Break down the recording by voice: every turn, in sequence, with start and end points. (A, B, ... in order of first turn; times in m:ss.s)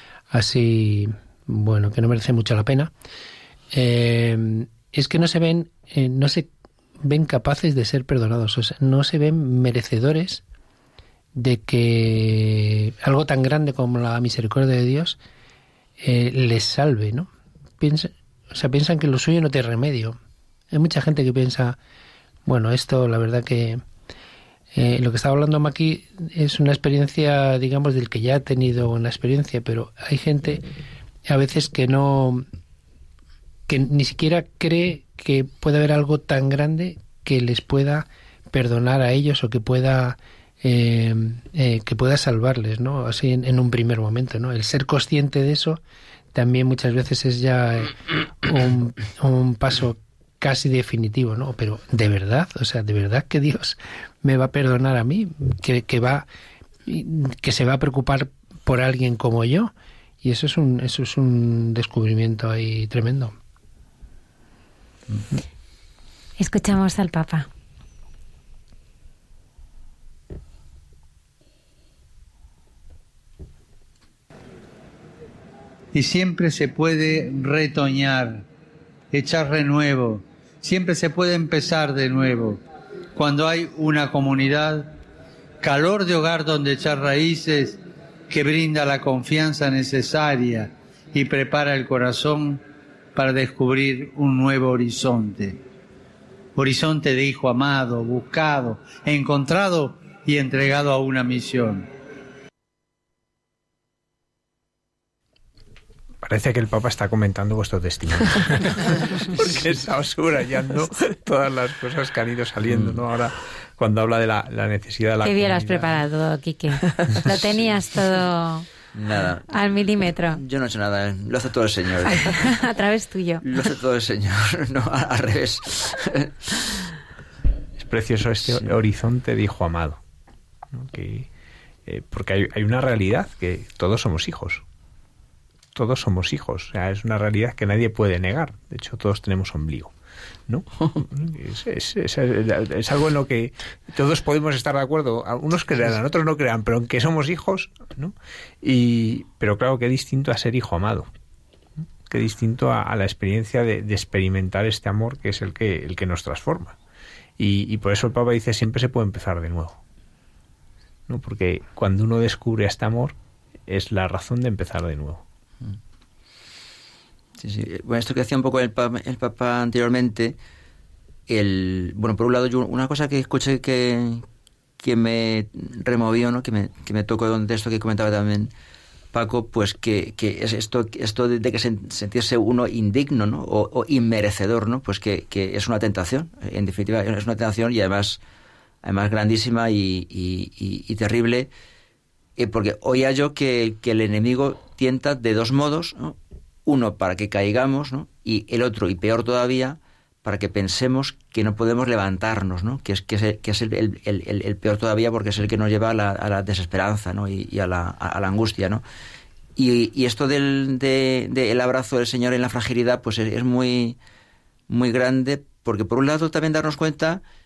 0:00.3-0:02.9 A
0:03.7-0:10.4 A
0:11.4-0:15.2 A
0:16.0-0:20.2 A
0:20.7-0:21.8 A
0:22.4-0:23.8 A
0:24.7-0:30.6 A
0:31.3-0:32.4 A
0:33.7-0:45.8 A
0:46.3-0:56.3 A
0:56.9-0:59.7 A
1:00.2-1:03.3 A
1:06.4-1:07.5 B
1:15.9-1:18.4 C
1:19.1-1:22.6 C
1:23.1-1:24.9 C
1:25.6-1:32.6 C
1:33.2-1:35.6 C
1:36.6-1:41.9 C
1:46.2-1:56.0 D
1:52.7-1:53.0 E
1:55.2-1:58.7 B
1:58.9-1:59.4 E
1:59.5-2:00.4 B
2:00.3-2:02.4 E
2:02.2-2:03.4 B
2:03.4-2:06.3 E
2:07.8-2:10.0 D
2:10.7-2:11.3 D
2:11.9-2:14.6 D
2:15.8-2:19.9 D
2:20.5-2:31.1 D
2:32.1-2:36.8 D
2:37.4-2:39.8 D
2:41.1-2:43.2 D
2:43.7-2:45.2 D
2:47.4-2:50.4 E
2:51.3-2:54.3 E
2:54.8-2:58.5 E
2:59.1-3:08.2 E
3:08.8-3:11.5 E
3:12.4-3:28.8 E
3:29.6-3:34.0 E
3:34.7-3:37.2 E